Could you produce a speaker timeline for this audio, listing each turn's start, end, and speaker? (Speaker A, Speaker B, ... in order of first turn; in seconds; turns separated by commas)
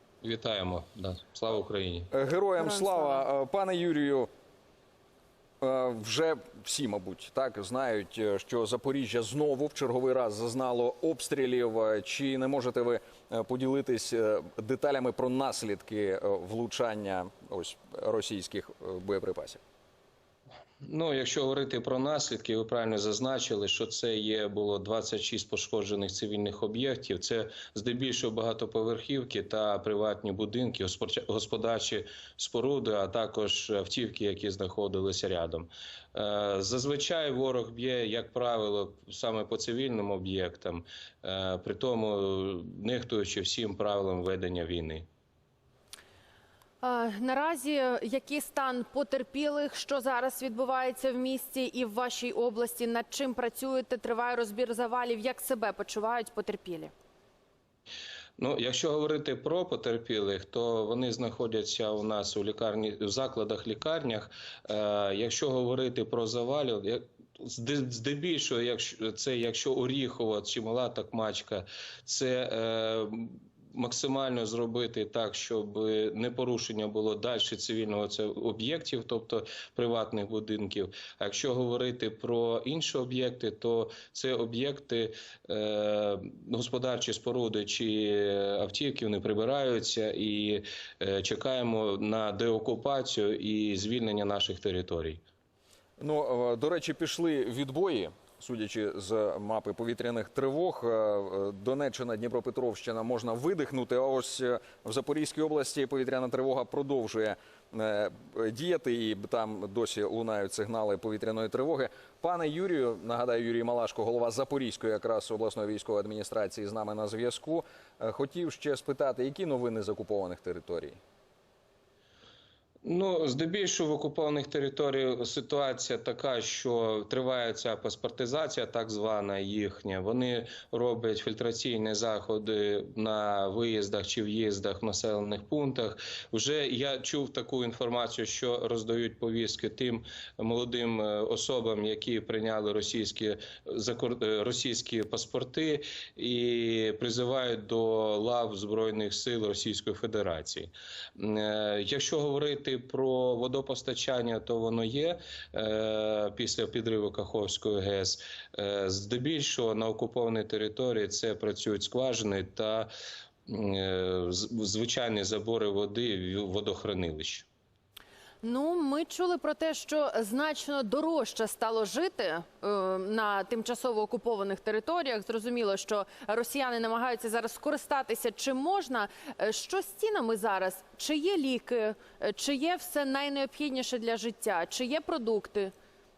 Speaker A: 0.2-2.1, Speaker B: 2.1-4.3, Speaker C: 2.6-3.2, Speaker B: 5.6-19.6, Speaker A: 20.8-45.0, Speaker C: 46.8-56.9, Speaker A: 58.4-95.2, Speaker B: 96.0-121.0, Speaker A: 122.8-162.9, Speaker A: 163.5-167.5, Speaker C: 168.4-185.7